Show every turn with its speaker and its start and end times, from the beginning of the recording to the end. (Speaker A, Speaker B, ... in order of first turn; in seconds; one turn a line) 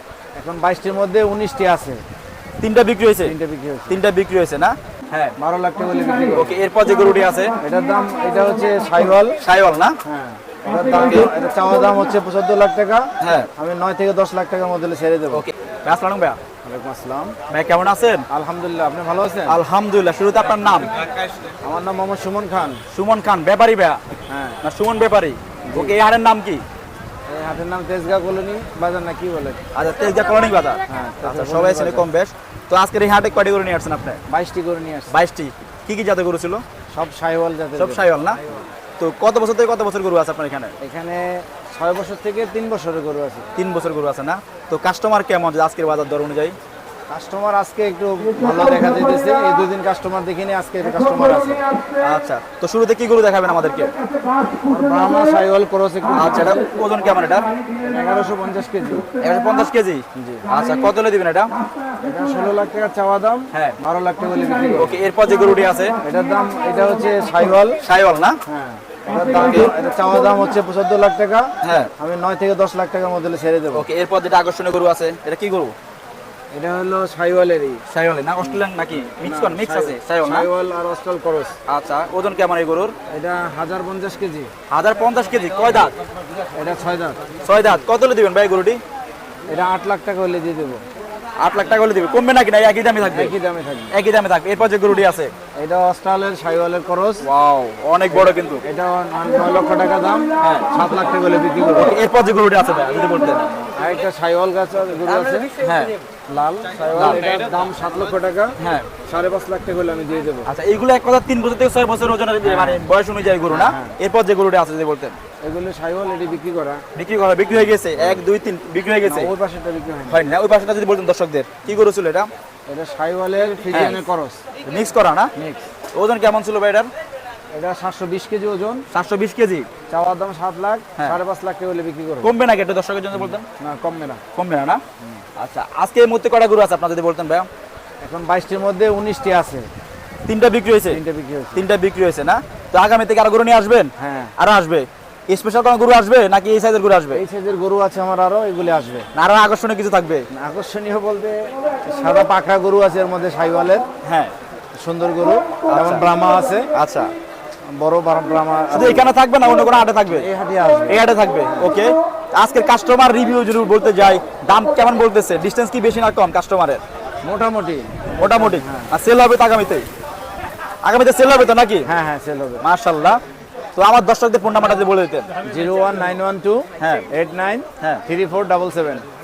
Speaker A: 0.3-2.0
Speaker B: 2.6-3.3
Speaker A: 3.2-4.0
Speaker B: 3.9-5.3
Speaker A: 5.4-6.6
Speaker B: 6.3-7.5
Speaker A: 7.6-9.4
Speaker B: 9.4-9.9
Speaker A: 10.0-15.4
Speaker B: 13.2-13.5
Speaker B: 15.3-16.4
Speaker A: 16.6-17.4
Speaker B: 17.5-18.2
Speaker A: 18.3-19.6
Speaker B: 19.5-20.9
Speaker A: 21.6-22.8
Speaker B: 22.9-24.0
Speaker A: 24.3-24.6
Speaker B: 24.6-26.6
Speaker A: 25.7-26.0
Speaker A: 27.3-29.6
Speaker B: 29.7-34.2
Speaker A: 30.9-32.1
Speaker A: 34.3-35.1
Speaker B: 35.1-36.6
Speaker A: 36.9-38.6
Speaker B: 37.8-38.4
Speaker B: 39.0-40.7
Speaker A: 40.8-43.5
Speaker B: 43.5-46.5
Speaker A: 47.1-51.6
Speaker B: 52.0-53.9
Speaker A: 54.6-56.6
Speaker B: 56.1-57.5
Speaker A: 57.8-59.0
Speaker B: 59.2-61.5
Speaker A: 60.1-60.4
Speaker A: 62.0-65.0
Speaker B: 63.5-63.8
Speaker B: 64.8-65.9
Speaker A: 66.0-67.8
Speaker B: 67.8-68.4
Speaker A: 68.5-73.9
Speaker B: 69.3-69.7
Speaker B: 71.6-71.9
Speaker B: 73.7-75.7
Speaker A: 76.5-77.8
Speaker B: 77.9-80.5
Speaker A: 79.2-81.5
Speaker B: 81.7-82.9
Speaker A: 83.1-84.5
Speaker B: 84.7-85.9
Speaker A: 86.5-87.3
Speaker B: 87.4-88.8
Speaker A: 89.5-90.8
Speaker B: 91.4-93.3
Speaker A: 93.0-93.9
Speaker B: 93.9-95.3
Speaker A: 95.5-97.2
Speaker B: 97.2-98.6
Speaker A: 98.1-102.0
Speaker B: 100.4-100.7
Speaker B: 101.7-103.5
Speaker A: 103.8-105.5
Speaker B: 105.5-105.9
Speaker A: 106.3-108.5
Speaker B: 106.8-107.2
Speaker B: 108.6-108.9
Speaker A: 109.0-110.5
Speaker B: 110.5-115.2
Speaker A: 112.4-112.8
Speaker A: 113.5-114.0
Speaker A: 115.4-116.8
Speaker B: 116.9-119.3
Speaker A: 118.0-118.2
Speaker A: 119.0-120.2
Speaker B: 120.1-122.3
Speaker A: 122.7-124.4
Speaker B: 123.7-124.0
Speaker B: 124.6-125.3
Speaker A: 125.3-125.6
Speaker B: 125.9-126.9
Speaker A: 127.5-128.8
Speaker B: 128.9-129.7
Speaker A: 129.9-132.3
Speaker B: 132.2-133.5
Speaker A: 133.1-134.2
Speaker B: 134.3-134.8
Speaker B: 135.4-137.5
Speaker A: 138.0-139.7
Speaker B: 140.3-141.0
Speaker A: 140.9-141.7
Speaker B: 141.5-147.2
Speaker A: 144.0-144.3
Speaker A: 147.1-149.1
Speaker B: 149.1-150.2
Speaker A: 150.3-153.8
Speaker B: 154.0-154.3
Speaker A: 154.8-156.7
Speaker B: 155.7-156.0
Speaker B: 156.7-157.1
Speaker A: 157.7-159.1
Speaker B: 158.7-160.3
Speaker A: 160.1-161.7
Speaker B: 160.9-166.8
Speaker A: 167.2-168.9
Speaker B: 168.2-169.8
Speaker B: 170.8-171.9
Speaker A: 171.8-172.6
Speaker B: 172.6-173.2
Speaker B: 173.8-175.3
Speaker A: 175.4-179.0
Speaker B: 176.8-177.1